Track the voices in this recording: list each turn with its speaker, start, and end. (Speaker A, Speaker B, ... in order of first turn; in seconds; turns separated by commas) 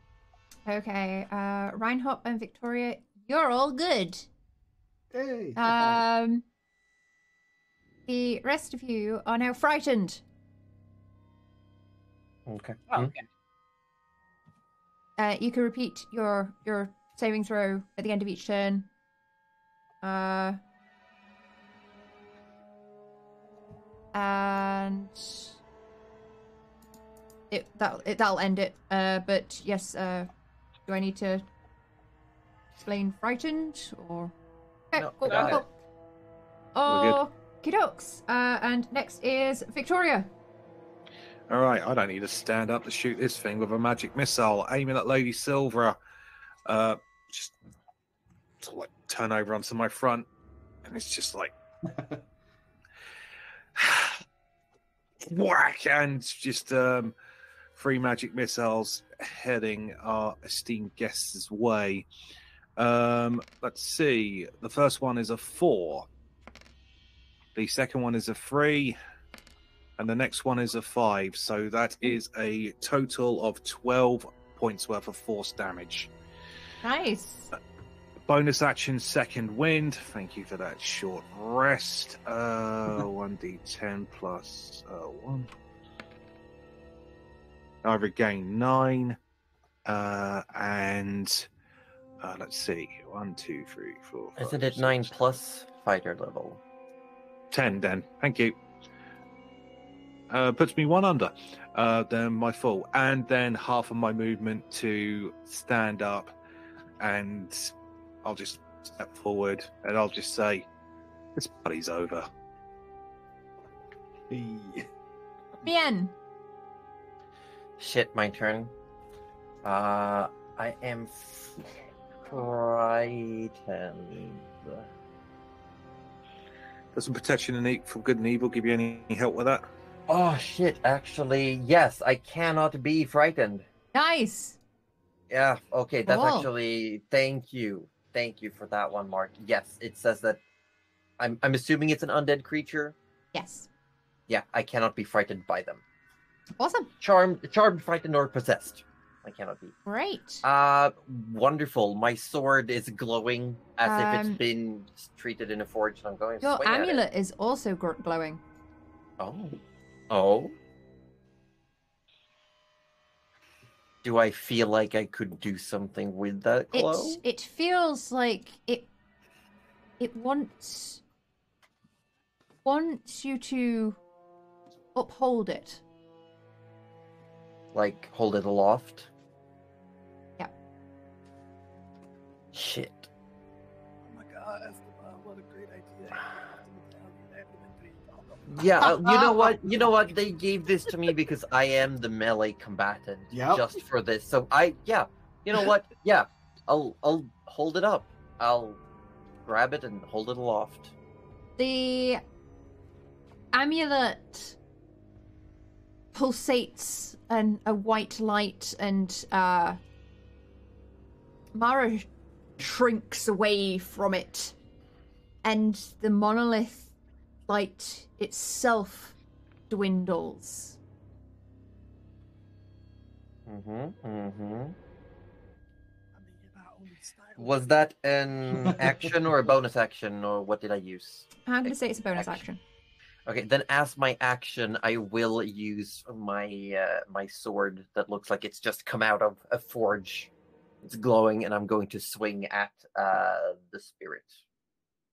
Speaker A: 0.7-4.3, Speaker B: 5.1-6.0, Speaker A: 5.5-6.4, Speaker A: 8.1-10.2, Speaker C: 12.4-13.1, Speaker D: 12.9-13.2, Speaker A: 15.2-18.9, Speaker A: 20.0-20.6, Speaker A: 24.1-25.6, Speaker A: 27.5-30.3, Speaker A: 30.9-31.4, Speaker A: 32.8-34.3, Speaker A: 34.9-35.7, Speaker C: 34.9-35.6, Speaker D: 35.3-35.6, Speaker A: 36.7-40.3, Speaker E: 36.9-37.2, Speaker E: 41.5-46.0, Speaker E: 46.6-47.5, Speaker E: 48.6-50.3, Speaker E: 50.8-51.5, Speaker B: 51.9-52.2, Speaker E: 53.7-54.2, Speaker E: 55.2-57.1, Speaker E: 57.7-62.0, Speaker E: 62.8-66.1, Speaker E: 67.5-69.0, Speaker E: 70.0-76.1, Speaker A: 76.8-77.5, Speaker E: 78.3-85.5, Speaker E: 87.8-89.2, Speaker E: 89.8-91.5, Speaker E: 92.2-95.3, Speaker C: 94.4-96.6, Speaker E: 97.5-98.6, Speaker E: 100.3-106.3, Speaker E: 107.0-110.7, Speaker E: 111.3-112.3, Speaker B: 114.3-114.8, Speaker A: 115.6-116.1, Speaker C: 117.8-118.7, Speaker C: 119.6-121.5, Speaker C: 122.3-124.9, Speaker E: 126.9-129.7, Speaker C: 130.1-133.7, Speaker A: 133.9-134.6, Speaker C: 135.3-140.4, Speaker A: 136.1-136.5, Speaker C: 141.2-142.9, Speaker A: 143.3-143.7, Speaker C: 144.3-145.8, Speaker A: 146.6-146.9, Speaker C: 147.0-149.8, Speaker A: 149.8-150.4, Speaker C: 150.4-157.0, Speaker A: 153.8-154.4, Speaker A: 156.4-158.4, Speaker C: 159.2-160.5, Speaker C: 164.0-167.2, Speaker A: 166.7-168.9, Speaker A: 170.0-171.0, Speaker A: 172.6-174.0, Speaker A: 174.9-175.8, Speaker C: 177.7-179.1, Speaker C: 182.5-183.1, Speaker D: 184.0-188.7, Speaker C: 188.5-198.8, Speaker B: 188.6-189.6, Speaker B: 193.3-193.7, Speaker C: 199.4-200.9, Speaker A: 201.6-202.2, Speaker A: 203.5-204.6, Speaker A: 206.1-209.8, Speaker A: 211.5-212.1, Speaker A: 212.6-214.5, Speaker A: 215.4-216.9, Speaker A: 217.5-219.2, Speaker A: 219.7-220.8, Speaker C: 223.4-224.8, Speaker D: 226.1-227.6, Speaker C: 227.4-231.3, Speaker B: 228.6-229.1, Speaker A: 231.4-232.6, Speaker C: 232.2-232.4, Speaker C: 233.2-240.3, Speaker C: 240.8-244.4